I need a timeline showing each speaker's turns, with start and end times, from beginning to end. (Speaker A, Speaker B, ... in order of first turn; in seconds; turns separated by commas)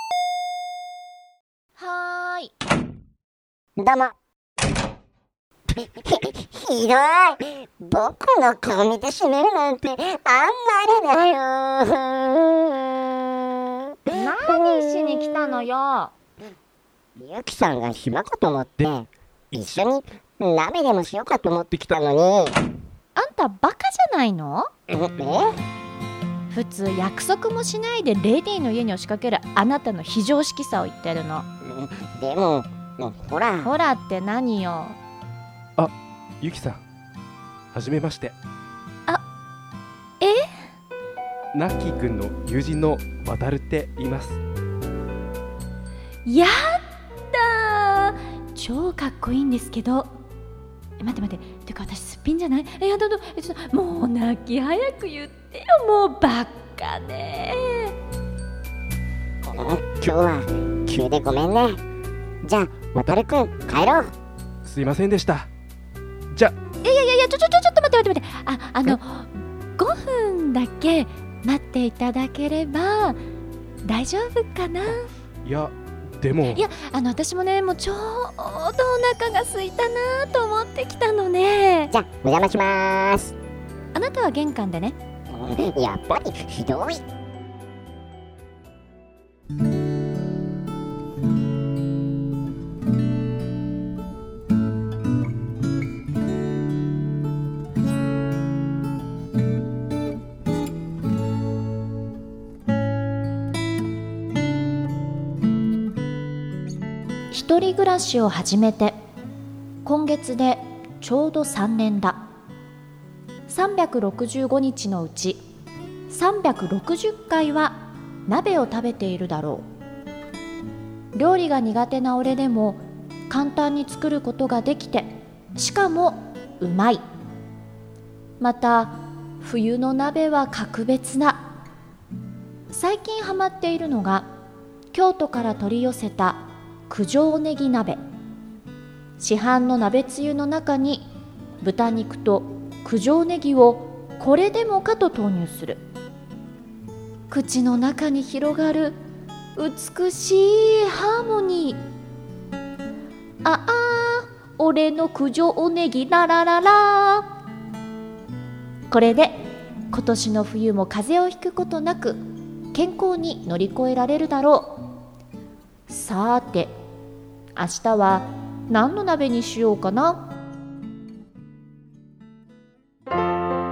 Speaker A: 1.8-2.5, Speaker B: 3.8-4.1, Speaker B: 5.7-15.3, Speaker A: 14.1-16.1, Speaker B: 17.2-22.6, Speaker A: 23.1-24.7, Speaker B: 24.9-25.6, Speaker A: 26.5-31.5, Speaker B: 31.6-33.7, Speaker A: 33.6-35.0, Speaker C: 35.8-36.8, Speaker C: 37.7-38.4, Speaker A: 40.2-40.5, Speaker C: 41.5-44.4, Speaker A: 46.2-50.1, Speaker A: 51.0-58.0, Speaker B: 59.4-61.8, Speaker B: 62.4-64.1, Speaker C: 64.7-65.5, Speaker A: 66.8-73.2, Speaker A: 73.8-75.1, Speaker C: 75.5-76.6, Speaker A: 76.5-81.9, Speaker B: 81.9-83.3, Speaker A: 83.9-85.0, Speaker B: 85.3-87.0, Speaker A: 107.3-109.0, Speaker A: 109.8-112.2, Speaker A: 113.5-115.4, Speaker A: 116.1-119.7, Speaker A: 121.1-127.0, Speaker A: 128.4-131.5, Speaker A: 132.7-134.3, Speaker A: 134.9-138.0, Speaker A: 139.2-141.1, Speaker A: 141.6-145.8, Speaker A: 147.3-149.0, Speaker A: 149.6-151.8, Speaker A: 153.4-157.3, Speaker A: 158.9-164.9, Speaker A: 165.9-166.7, Speaker A: 167.6-170.3